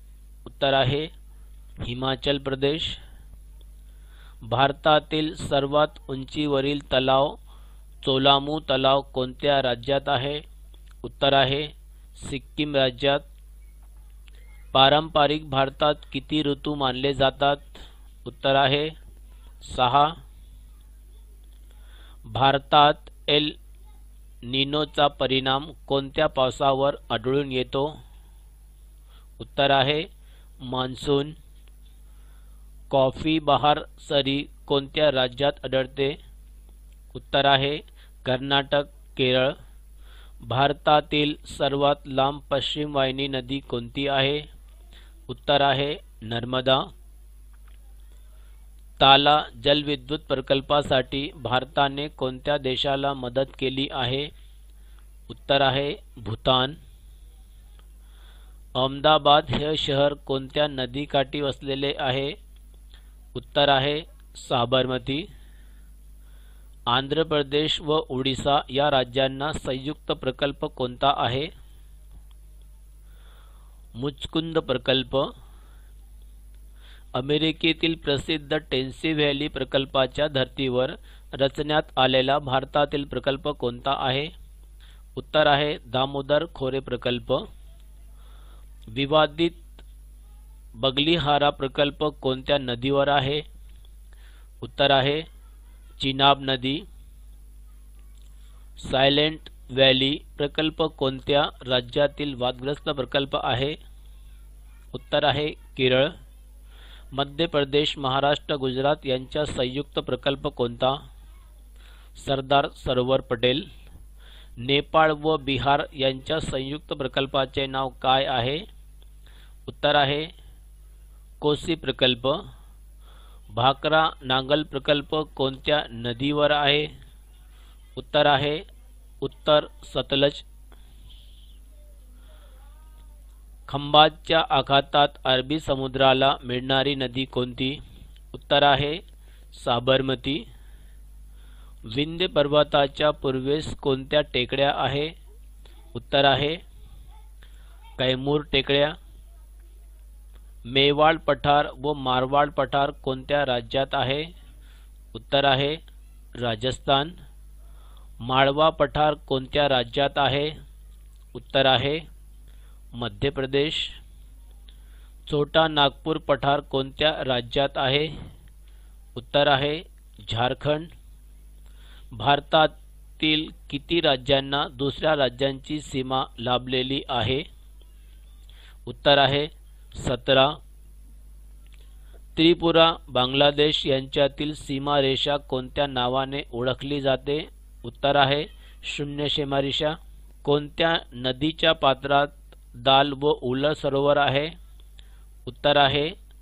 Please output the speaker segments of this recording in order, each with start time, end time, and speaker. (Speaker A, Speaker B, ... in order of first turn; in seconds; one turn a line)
Speaker A: 0.4-1.1
Speaker A: 1.8-3.0
Speaker A: 4.4-7.4
Speaker A: 8.0-10.4
Speaker A: 11.0-13.2
Speaker A: 14.7-18.9
Speaker A: 19.6-20.1
Speaker A: 22.3-23.5
Speaker A: 24.4-27.9
Speaker A: 29.4-30.0
Speaker A: 30.6-31.3
Speaker A: 32.9-36.2
Speaker A: 37.1-39.5
Speaker A: 40.4-44.4
Speaker A: 45.3-46.8
Speaker A: 49.0-54.3
Speaker A: 55.3-56.8
Speaker A: 58.8-62.3
Speaker A: 63.3-65.2
Speaker A: 66.9-71.5
Speaker A: 74.0-75.3
Speaker A: 77.2-84.3
Speaker A: 85.2-87.4
Speaker A: 88.9-89.7
Speaker A: 90.8-93.4
Speaker A: 94.6-95.2
Speaker A: 96.0-96.8
Speaker A: 98.8-103.8
Speaker A: 104.9-106.1
Speaker A: 107.1-111.0
Speaker A: 112.2-113.7
Speaker A: 114.6-118.6
Speaker A: 119.7-120.3
Speaker A: 121.4-122.4
Speaker A: 123.5-126.9
Speaker A: 128.0-128.6
Speaker A: 129.2-130.4
Speaker A: 133.7-137.8
Speaker A: 138.3-139.0
Speaker A: 139.5-140.4
Speaker A: 141.9-145.1
Speaker A: 145.9-146.6
Speaker A: 148.0-148.9
Speaker A: 150.7-154.3
Speaker A: 155.1-155.8
Speaker A: 156.4-157.1
Speaker A: 158.2-160.5
Speaker A: 161.3-162.0
Speaker A: 162.9-164.0
Speaker A: 165.3-168.1
Speaker A: 169.2-170.9
Speaker A: 172.1-177.4
Speaker A: 178.9-180.5
Speaker A: 182.3-194.5
Speaker A: 195.4-196.1